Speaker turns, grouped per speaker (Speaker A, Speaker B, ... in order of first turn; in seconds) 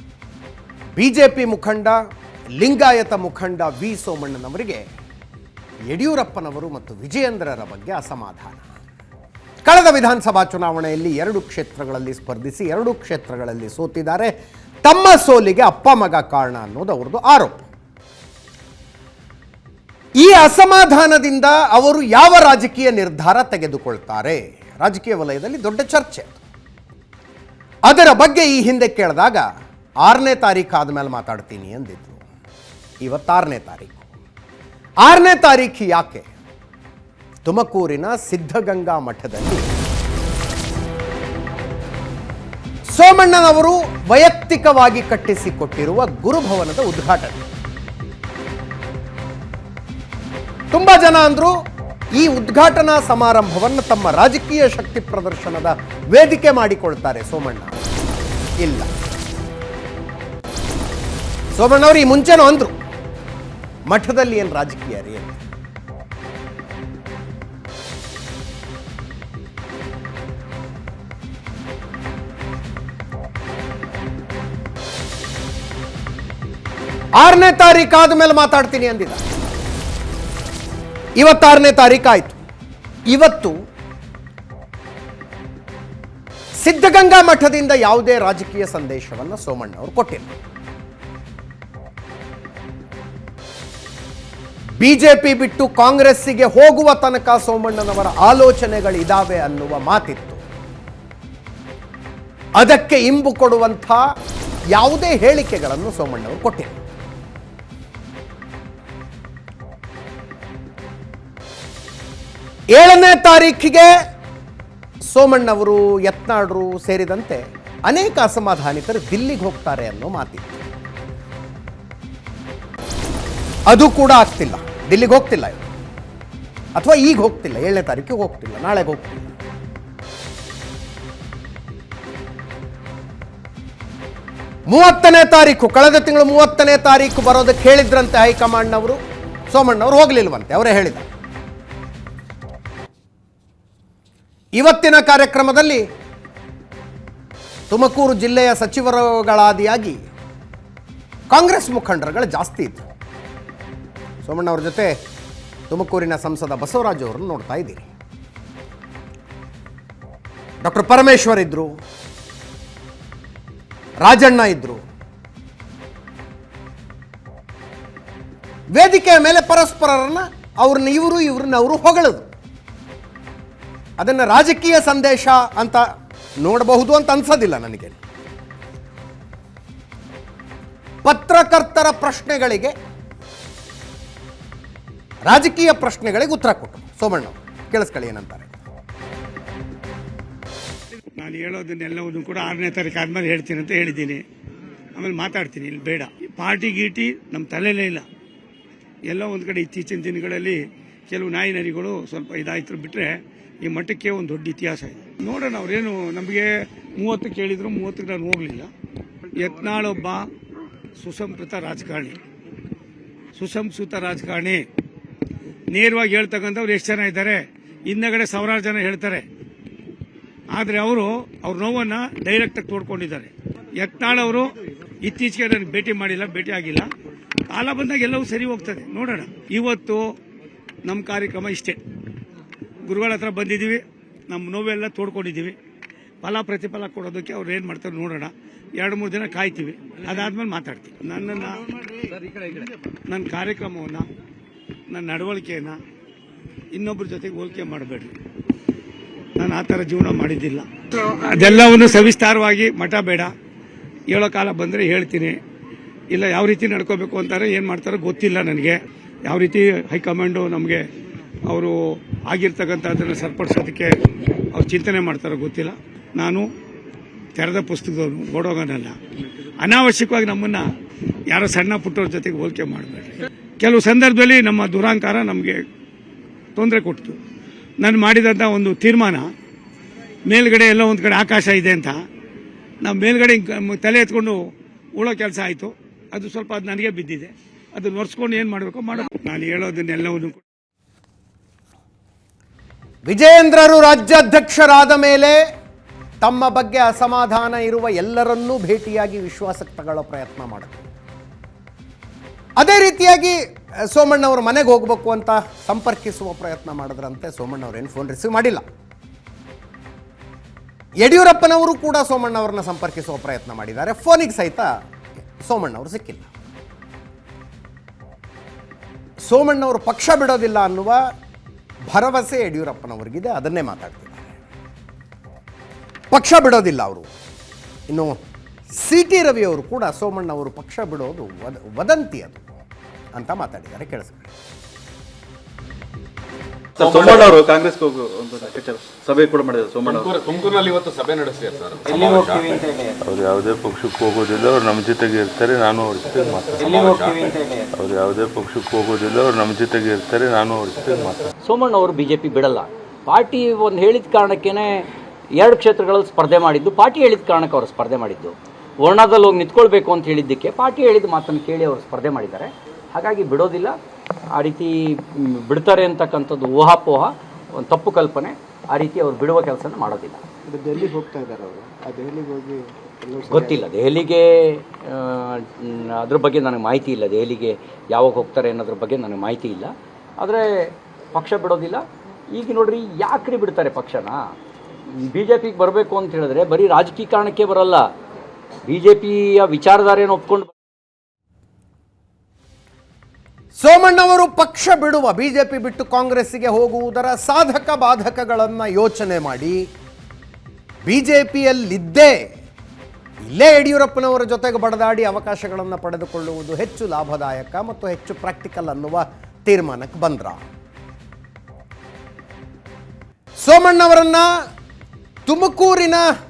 Speaker A: 1.0-2.0, 2.6-4.8, 5.9-8.6, 9.6-14.3, 14.8-17.6, 20.2-26.4, 27.9-29.5, 30.0-32.2, 33.0-34.0, 35.0-36.3, 37.5-39.7, 42.9-47.4, 50.7-51.5, 52.1-57.8, 58.6-58.9, 61.5-62.8, 63.9-65.4, 77.2-79.2, 81.2-82.4, 83.1-83.6, 86.6-90.3, 94.8-100.4, 102.6-104.0, 104.7-106.8, 112.7-114.0, 115.1-120.6, 123.7-125.7, 126.8-129.3, 134.7-139.0, 139.5-141.1, 144.6-145.8, 147.7-150.0, 151.3-152.9, 154.2-155.0, 155.7-157.9, 160.6-161.8, 164.0-164.8, 168.7-172.3, 174.0-175.8, 176.4-178.0, 181.0-182.7, 185.2-188.6, 293.1-295.4, 296.2-300.9, 302.6-308.6, 311.0-314.8, 315.4-316.3, 319.2-321.0, 321.9-324.4, 326.1-327.1, 327.9-328.2, 328.7-332.4, 333.1-334.3, 393.6-399.7, 400.9-402.2, 403.2-410.4, 413.4-414.5, 415.3-416.1
Speaker B: 191.2-194.2, 194.9-198.1, 199.1-208.7, 209.3-210.3, 211.0-212.2, 213.4-214.6, 215.7-219.2, 220.5-224.5, 225.0-226.9, 227.5-230.1, 230.8-231.8, 232.8-235.6, 236.2-241.8, 242.5-244.1, 244.9-245.8, 246.7-248.1, 249.4-253.3, 254.1-255.4, 256.1-260.9, 261.5-266.5, 267.4-268.9, 269.6-270.7, 271.3-275.6, 276.6-277.2, 277.8-279.3, 280.3-282.0, 282.8-284.4, 285.0-290.4
Speaker C: 336.8-337.2, 339.8-342.6, 346.6-347.3
Speaker D: 336.8-339.9
Speaker E: 336.8-337.4, 339.5-340.1, 351.4-354.9, 355.4-363.8, 364.3-370.2, 373.3-384.3, 385.0-387.9, 388.6-390.5
Speaker F: 341.9-343.0, 346.6-347.7, 370.5-373.7
Speaker G: 343.0-346.9, 347.7-351.3